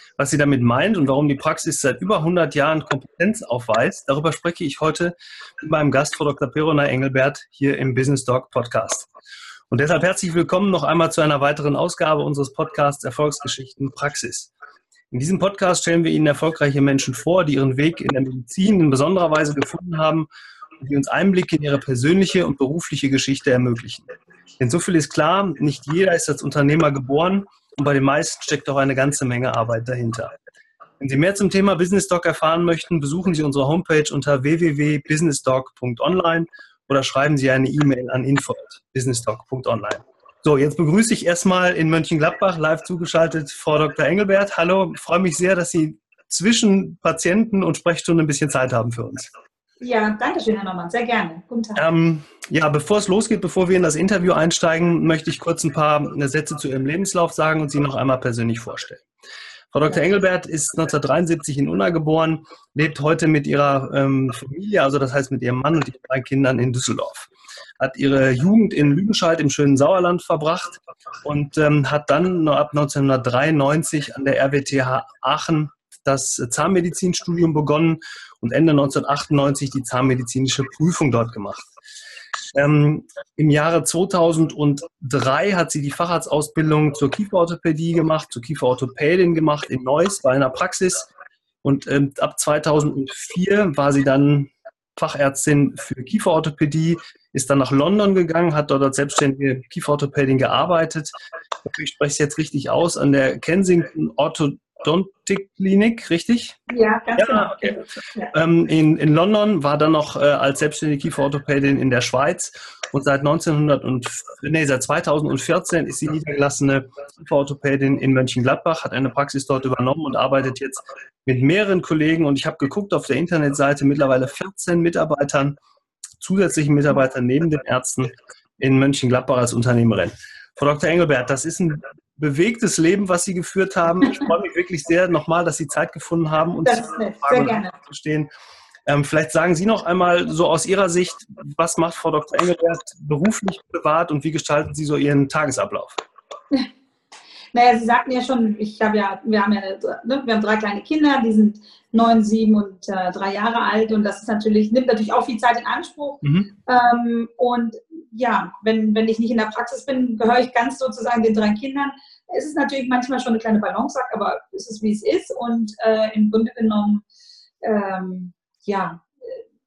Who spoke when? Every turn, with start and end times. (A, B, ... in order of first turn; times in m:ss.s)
0:00.2-0:09.1 A
0:09.7-0:14.5 A
0:15.1-0:20.3 A
0:20.8-0:24.1 A
0:24.6-0:30.3 A
0:31.0-0:49.3 A
0:49.8-0:51.8 B
0:51.8-0:59.0 A
0:59.7-1:07.3 A
1:07.8-1:21.7 A
1:22.5-1:31.1 A
1:31.6-1:41.1 A
1:41.6-1:46.6 A
1:46.7-1:48.3 B
1:47.2-1:47.8 A
1:48.3-2:05.6 A
2:06.2-2:18.3 A
2:16.6-2:17.7 B
2:18.9-2:26.0 A
2:27.5-2:47.0 B
2:36.2-2:36.5 A
2:47.6-2:49.4 B